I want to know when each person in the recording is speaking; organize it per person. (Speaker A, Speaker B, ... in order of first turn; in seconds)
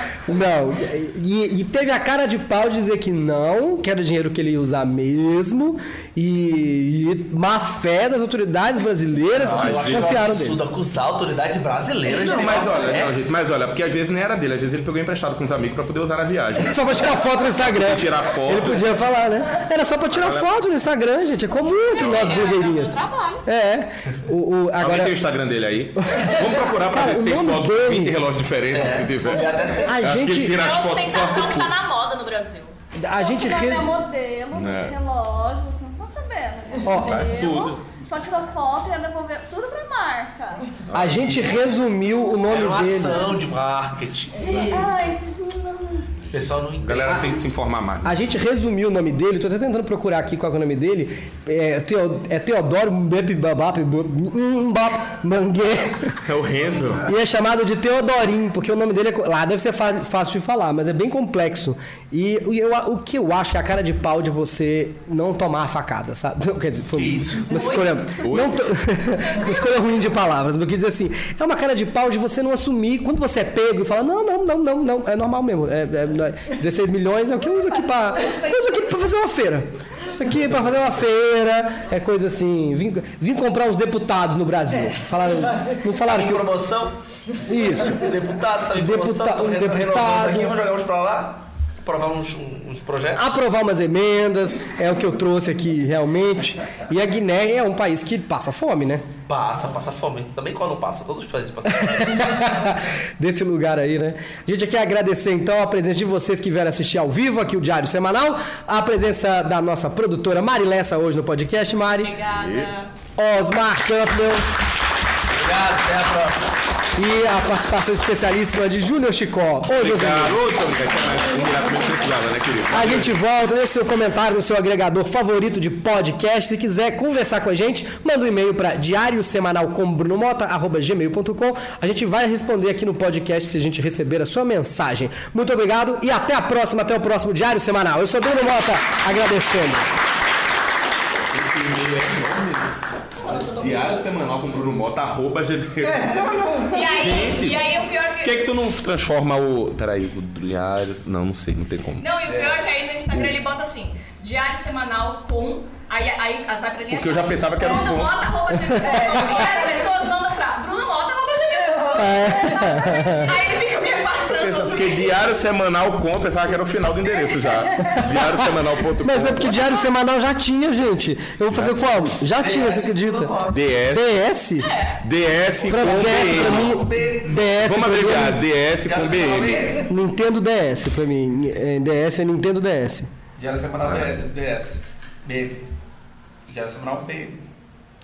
Speaker A: 0.2-10.6, 16.6-25.2, 26.1-28.2, 29.9-30.6, 33.0-34.0, 36.8-37.2, 40.9-43.2, 48.0-56.2, 57.0-86.5, 87.5-88.1, 88.7-90.5, 93.2-99.0, 101.7-112.1, 113.2-114.5, 117.0-120.4, 122.7-139.9, 161.9-163.3, 169.0-173.3, 173.9-174.7, 175.7-178.4, 179.7-183.1
Speaker B: 9.3-13.1, 28.7-30.0, 41.0-41.6, 42.5-45.0, 46.3-47.3, 66.9-67.5, 86.0-87.0, 87.8-93.2, 99.3-102.4, 115.3-116.5, 172.3-173.6, 175.8-177.4, 178.8-179.9, 183.4-185.6, 186.5-187.4
Speaker C: 9.4-10.2, 12.1-18.9, 20.1-20.5, 21.7-22.3, 24.8-31.7, 34.5-35.0, 36.9-37.8, 40.9-41.5, 46.8-48.2, 56.2-57.1, 68.2-68.9, 112.4-112.7, 119.7-123.1, 141.3-152.5, 156.9-158.2, 164.3-169.8, 171.5-171.8, 173.4-174.2, 175.0-176.8, 177.6-179.7
Speaker D: 21.9-23.4, 30.5-32.7, 67.5-68.3, 69.2-70.2, 111.8-112.9, 146.7-148.6, 152.0-165.2, 174.6-175.0
Speaker E: 33.1-40.8, 42.1-42.4, 43.1-43.4, 44.4-46.0, 78.0-78.9, 143.2-144.1, 146.1-147.0, 158.8-159.9, 162.2-162.8